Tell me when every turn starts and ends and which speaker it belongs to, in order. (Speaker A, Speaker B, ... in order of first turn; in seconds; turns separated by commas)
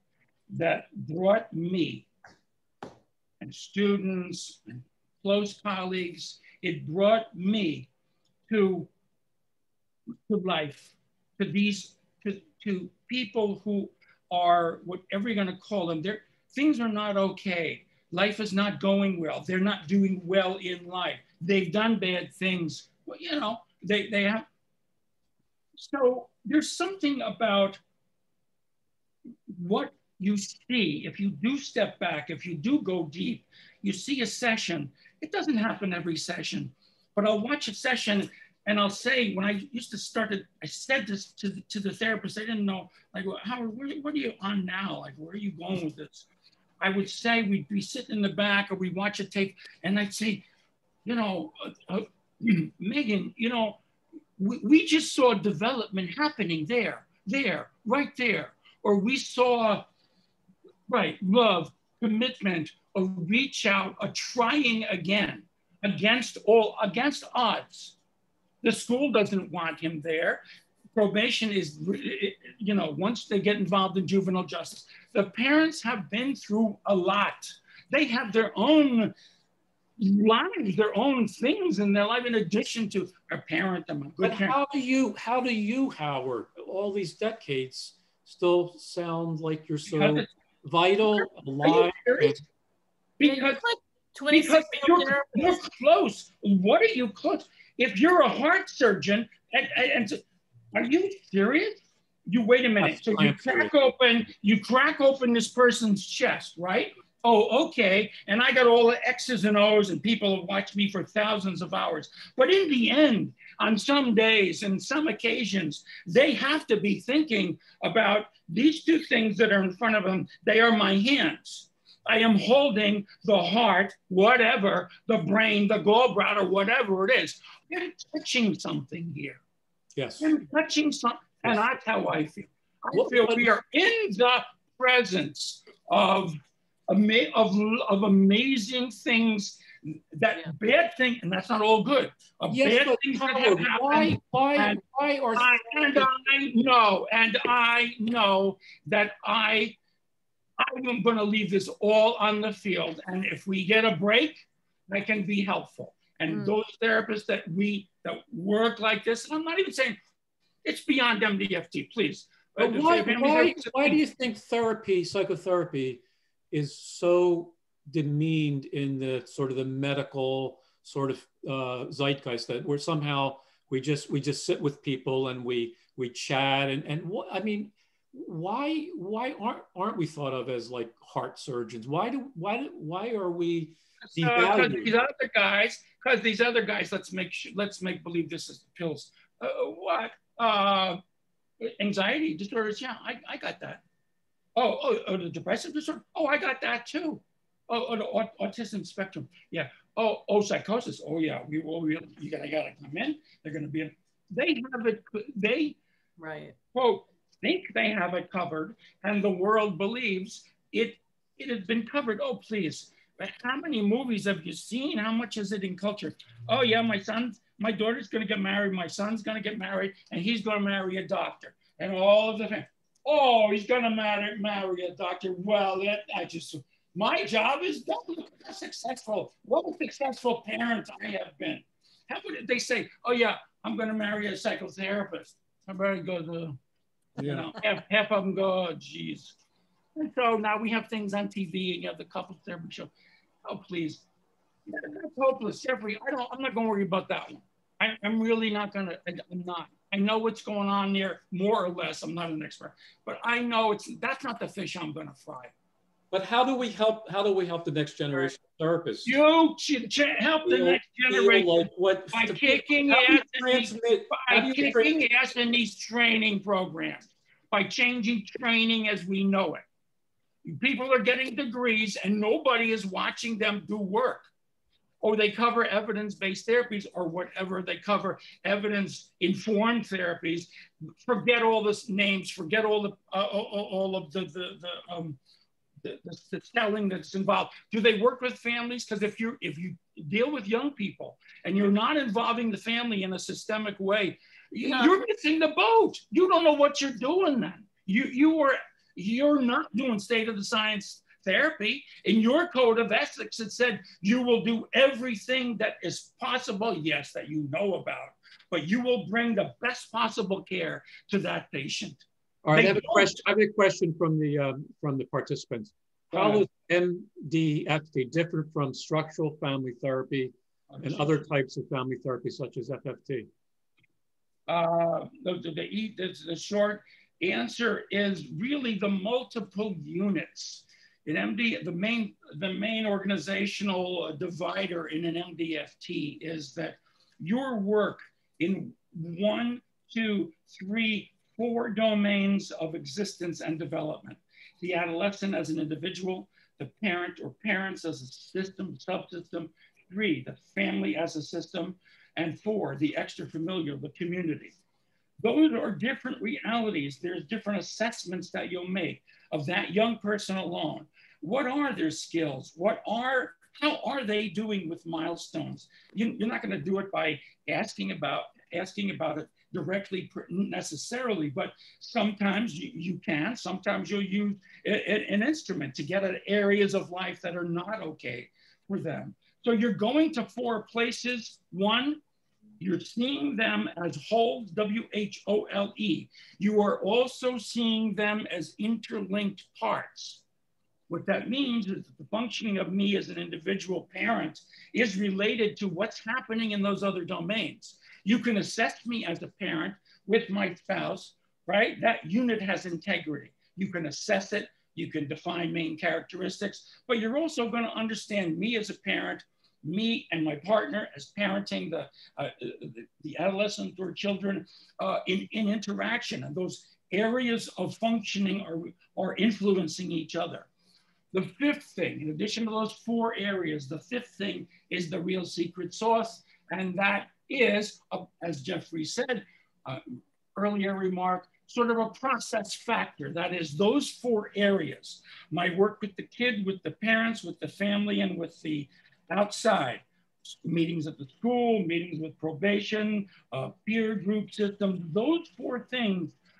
Speaker A: 0.5-2.1, Speaker A: 3.4-7.9, Speaker A: 8.5-8.9, Speaker A: 10.3-24.5, Speaker A: 25.8-27.8, Speaker A: 29.5-46.3, Speaker A: 46.8-50.5, Speaker A: 51.0-53.8, Speaker A: 54.4-59.8, Speaker A: 60.9-68.0, Speaker A: 68.6-70.4, Speaker A: 70.9-79.1, Speaker A: 80.0-84.5, Speaker B: 84.2-92.4, Speaker A: 89.9-90.3, Speaker A: 91.0-92.4, Speaker A: 93.2-93.6, Speaker C: 93.2-95.6, Speaker A: 94.3-129.4, Speaker B: 102.8-103.7, Speaker B: 129.9-130.3, Speaker A: 130.2-136.4, Speaker B: 132.9-133.5, Speaker A: 136.9-144.8, Speaker B: 142.5-146.1, Speaker A: 145.4-149.8, Speaker A: 150.6-160.0, Speaker C: 156.3-156.6, Speaker A: 160.6-164.0, Speaker B: 162.6-184.9, Speaker A: 184.1-191.0, Speaker A: 191.6-193.8, Speaker A: 194.6-205.8, Speaker C: 206.2-206.6, Speaker A: 206.7-236.6, Speaker B: 237.2-237.5, Speaker A: 237.2-239.4, Speaker A: 239.9-242.9, Speaker A: 243.4-244.1, Speaker A: 244.7-255.5, Speaker B: 256.1-259.1, Speaker A: 259.1-269.6, Speaker B: 260.4-265.0, Speaker A: 270.4-274.3, Speaker A: 275.0-280.5, Speaker A: 281.1-285.2, Speaker A: 285.8-312.0, Speaker C: 294.6-294.9, Speaker B: 312.4-323.3, Speaker A: 312.5-313.1, Speaker A: 316.1-316.5, Speaker A: 320.7-321.3, Speaker A: 324.5-354.5, Speaker A: 355.2-382.0, Speaker A: 382.6-390.2, Speaker A: 390.9-420.5, Speaker A: 421.1-429.8, Speaker A: 430.3-446.1